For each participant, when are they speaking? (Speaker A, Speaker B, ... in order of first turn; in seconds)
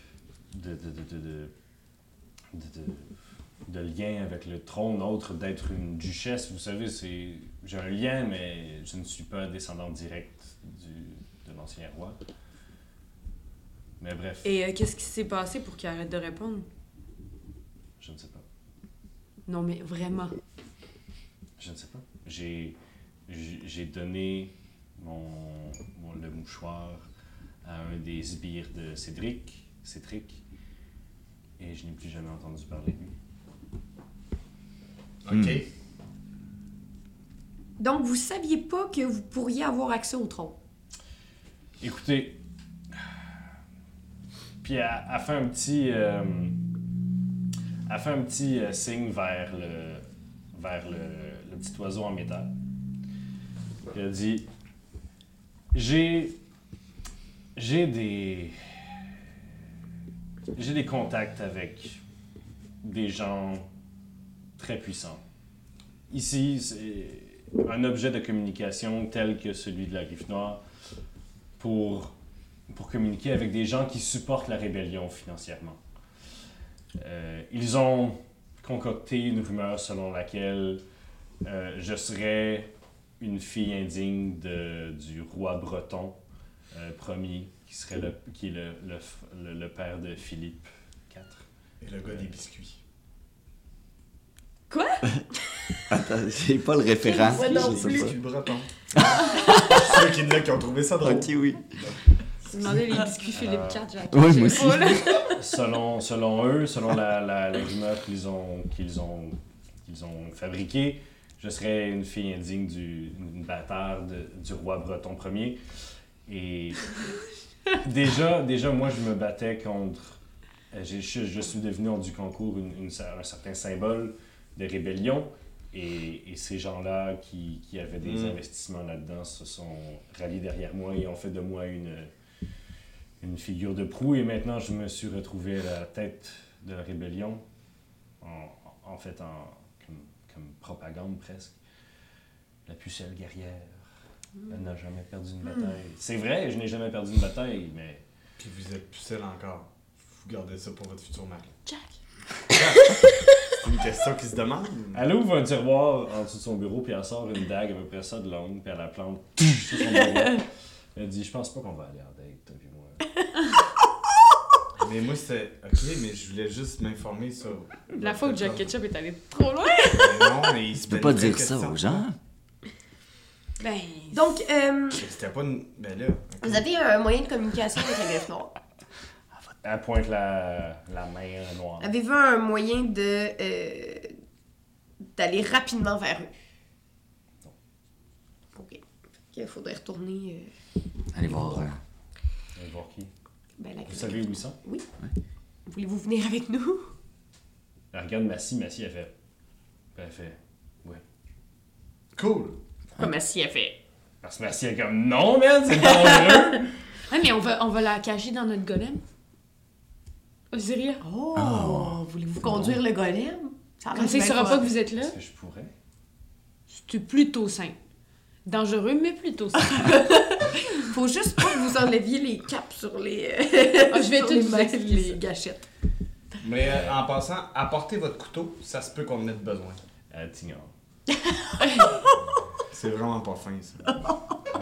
Speaker A: 0.5-1.5, 2.5-3.1, 3.6-12.2, 14.0-14.5, 18.0-18.4, 21.6-27.0, 27.6-30.4, 31.6-33.1, 41.8-42.4, 44.6-46.6, 47.9-52.5, 53.9-54.5, 55.7-56.4, 57.5-59.0, 60.5-62.0, 62.8-63.7, 64.6-65.2, 66.1-70.6, 71.6-72.1, 72.7-75.8, 77.0-80.8, 81.4-86.2, 86.7-91.4, 92.0-92.3, 103.3-103.8, 105.2-115.6, 116.2-117.0, 117.8-120.2, 120.7-132.1, 133.2-137.4, 138.2-141.6, 142.7-143.8, 144.5-148.0, 154.9-163.1, 179.6-181.9, 192.6-193.1, 193.9-194.6, 197.9-199.1, 199.9-201.0, 204.2-206.7, 214.9-215.7, 226.6-227.0, 230.1-230.7
Speaker B: 14.4-16.6, 19.5-20.3, 94.7-95.2, 102.5-105.4, 151.7-151.9, 167.9-170.5, 173.6-174.4, 207.1-209.0, 210.5-211.0, 213.9-215.1, 216.7-217.7, 218.4-220.2, 223.9-225.2, 231.6-231.9
Speaker C: 35.2-35.7, 91.8-92.8, 97.3-102.0, 128.0-128.4, 148.4-151.6, 152.5-153.0, 153.6-155.0, 164.8-168.7, 169.9-172.0, 174.9-176.6, 202.1-202.6, 226.4-229.8, 232.7-234.1
Speaker D: 35.3-35.6, 95.9-98.2, 98.9-99.9, 101.0-101.6, 104.1-105.2, 170.8-172.2, 191.1-191.8, 211.3-212.0
Speaker E: 37.8-40.6, 97.0-98.1, 174.1-175.0, 176.4-178.5, 181.8-184.1, 185.1-186.3, 188.5-190.5, 193.6-194.8, 195.7-196.9, 202.9-203.8, 206.0-206.3, 211.0-214.7, 219.7-225.6, 231.2-232.2